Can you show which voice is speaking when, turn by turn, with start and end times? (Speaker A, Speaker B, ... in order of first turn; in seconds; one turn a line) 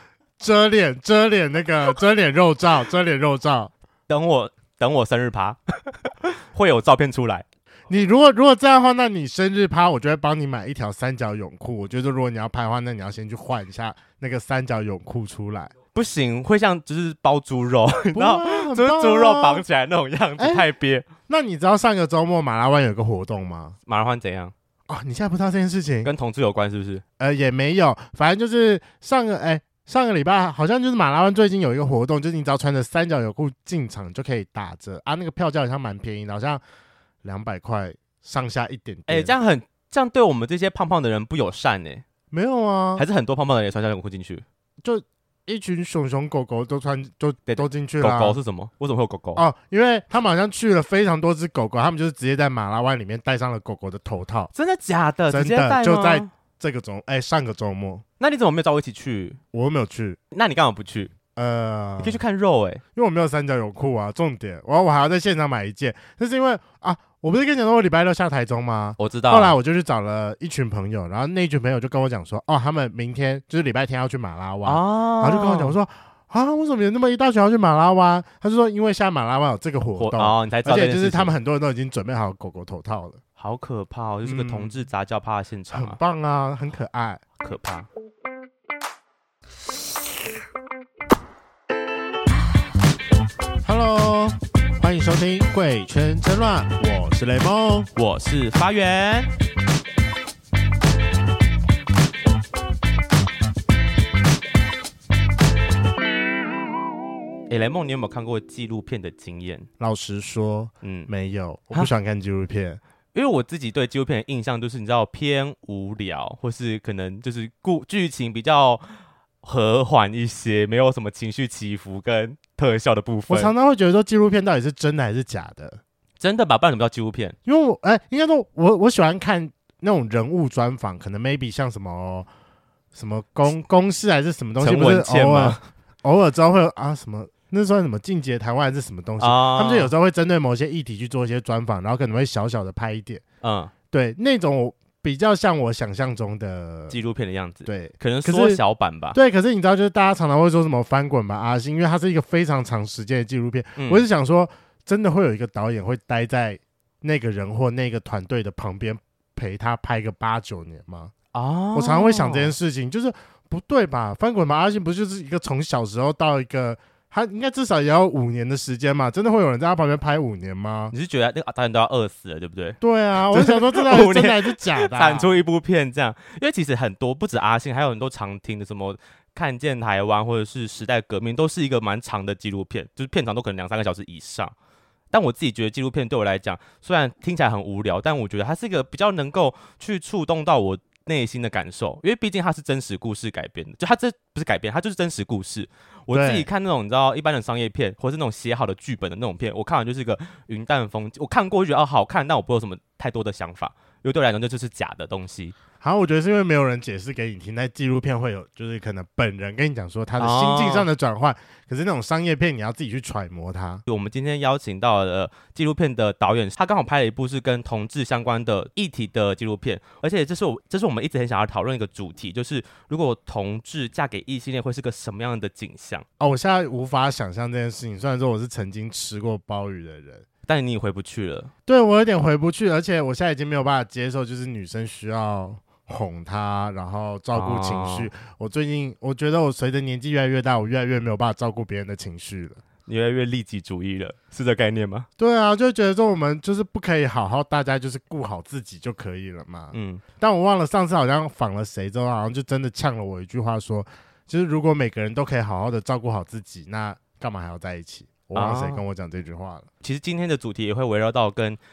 Speaker A: 0.4-3.7
Speaker B: 4.1-7.5
Speaker A: 7.9-15.7
Speaker B: 15.9-21.1
Speaker A: 18.1-19.6
Speaker A: 20.4-20.7
Speaker A: 21.3-23.8
Speaker B: 23.9-24.5
Speaker A: 24.9-26.1
Speaker B: 26.0-27.0
Speaker A: 27.2-36.6
Speaker A: 37.2-39.3
Speaker B: 39.1-42.0
Speaker A: 42.3-43.0
Speaker B: 43.0-44.4
Speaker A: 44.8-48.4
Speaker B: 47.5-49.4
Speaker A: 49.4-54.5
Speaker B: 54.5-56.3
Speaker A: 55.3-58.0
Speaker B: 58.2-59.4
Speaker A: 59.5-60.2
Speaker B: 60.3-61.1
Speaker A: 61.4-62.2
Speaker B: 62.0-62.8
Speaker A: 63.0-83.2
Speaker B: 69.0-69.6
Speaker B: 74.7-75.8
Speaker B: 80.0-81.3
Speaker B: 83.4-86.0
Speaker A: 84.2-84.8
Speaker A: 85.7-87.2
Speaker B: 87.4-87.9
Speaker A: 93.6-97.9
Speaker B: 98.0-99.3
Speaker B: 107.5-109.7
Speaker A: 109.8-112.8
Speaker B: 110.8-111.1
Speaker B: 113.1-123.5
Speaker A: 123.3-125.8
Speaker B: 126.2-127.4
Speaker A: 127.5-132.3
Speaker A: 132.9-143.2
Speaker B: 134.6-135.7
Speaker B: 139.2-139.9
Speaker B: 143.4-143.7
Speaker A: 143.9-147.0
Speaker B: 146.9-149.2
Speaker A: 147.7-148.6
Speaker A: 149.1-161.1
Speaker B: 153.8-154.1
Speaker B: 161.3-162.6
Speaker A: 161.7-170.9
Speaker B: 170.9-184.5
Speaker A: 172.8-175.3
Speaker B: 185.1-205.5
Speaker A: 196.1-196.5
Speaker A: 205.8-213.8
Speaker B: 210.2-210.9
Speaker B: 213.9-226.1
Speaker A: 226.2-230.3
Speaker B: 230.5-231.5
Speaker A: 231.7-242.6
Speaker B: 237.3-238.1
Speaker B: 242.9-245.1
Speaker A: 245.2-259.7
Speaker B: 249.7-250.0
Speaker B: 258.3-258.8
Speaker B: 259.8-261.6